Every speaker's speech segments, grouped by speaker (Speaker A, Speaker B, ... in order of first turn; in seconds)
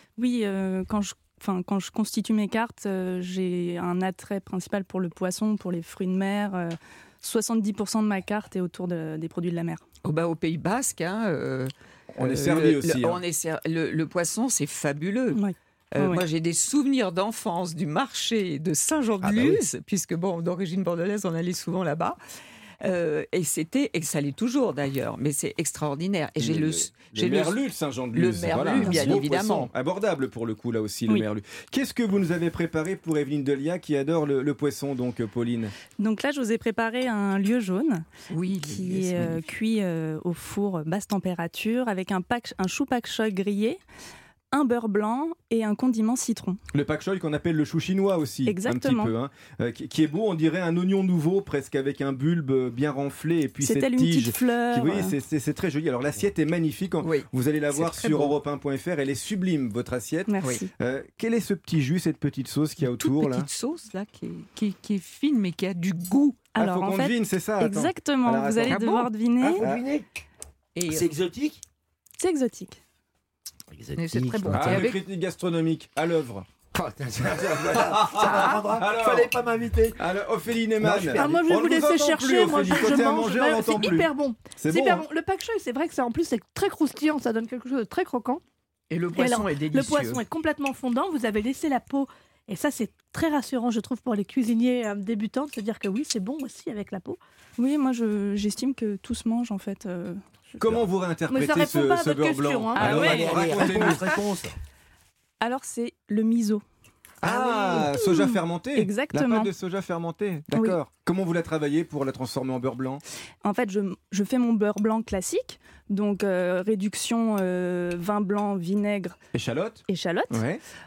Speaker A: 0.2-9.8, 15.3-16.2, 36.0-38.0, 38.8-43.8, 44.5-46.6, 48.5-49.1, 53.6-55.1, 60.3-60.7, 66.6-69.6, 72.2-72.8, 97.6-100.8, 102.8-103.3, 105.4-106.6, 108.8-109.5, 113.4-119.2, 119.9-120.4
Speaker B: 10.0-15.4, 15.9-22.2, 22.8-27.6, 28.1-29.7, 38.3-39.4, 57.0-58.3, 62.8-66.4, 68.7-69.1, 70.8-71.1, 73.9-75.0, 88.9-90.2
Speaker C: 12.1-13.2, 19.2-19.6, 26.4-35.7, 46.7-63.5, 66.6-68.8, 69.6-69.8, 74.5-76.5, 77.3-79.4, 80.0-85.0, 100.6-104.1, 107.2-113.0, 119.3-120.6
Speaker D: 69.4-70.0, 70.9-71.6, 73.7-74.9, 76.7-80.0, 80.8-81.4, 102.8-104.5
Speaker E: 81.1-88.4, 89.1-97.2, 101.3-103.4